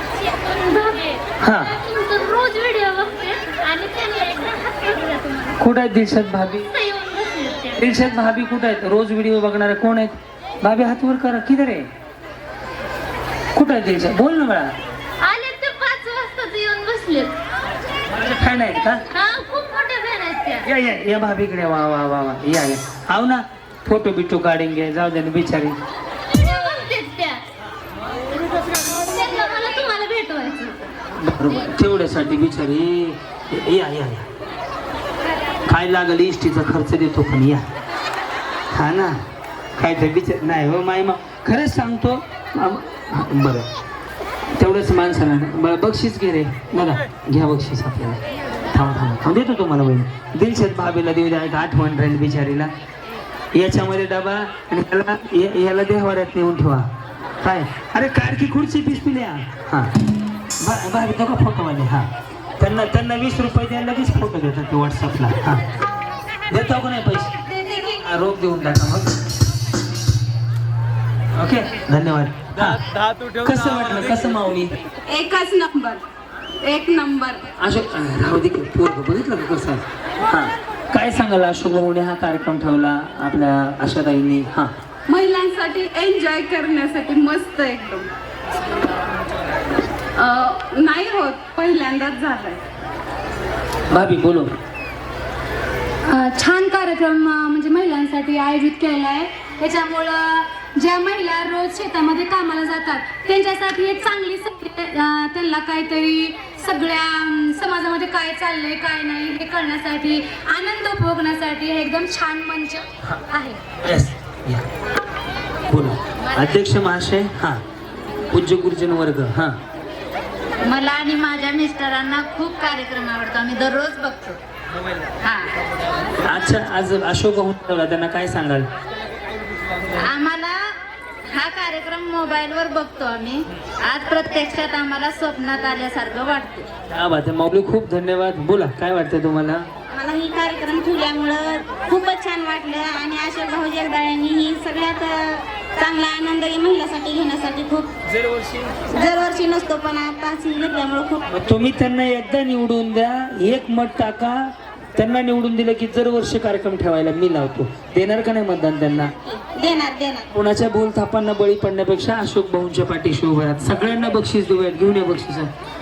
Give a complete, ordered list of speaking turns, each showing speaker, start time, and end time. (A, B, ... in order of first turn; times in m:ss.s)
0:00.4-0:01.2 A
0:01.4-0:01.8 B
0:01.8-0:05.5 A
0:05.6-0:06.7 B
0:06.7-0:07.8 A
0:07.7-0:11.9 B
0:13.5-0:14.7 B
0:15.2-0:17.4 A
0:18.1-0:19.0 B
0:19.1-0:20.6 A
0:20.6-0:25.8 B
0:26.3-0:27.4 A
0:28.9-0:30.9 A
0:31.2-0:34.3 B
0:35.7-0:37.7 B
0:38.7-0:39.2 B
0:39.8-0:43.7 B
0:44.6-0:52.7 B
0:53.5-0:56.9 B
0:57.4-0:59.9 B
1:00.6-1:05.6 B
1:06.5-1:09.1 B
1:11.4-1:12.8 B
1:13.4-1:14.8 B
1:15.0-1:16.0 C
1:16.6-1:17.4 C
1:17.6-1:24.7 B
1:25.1-1:28.1 C
1:30.2-1:32.6 C
1:33.9-1:34.5 B
1:36.1-1:53.6 D
1:53.8-1:54.7 B
1:55.7-1:57.6 B
1:58.3-1:59.6 B
2:00.6-2:04.4 A
2:05.2-2:05.6 A
2:06.2-2:08.7 B
2:10.0-2:10.7 A
2:11.3-2:16.7 A
2:16.9-2:19.7 B
2:19.9-2:28.0 E
2:28.8-2:31.3 E
2:31.3-2:39.1 B
2:39.2-2:40.3 E
2:40.3-2:45.5 B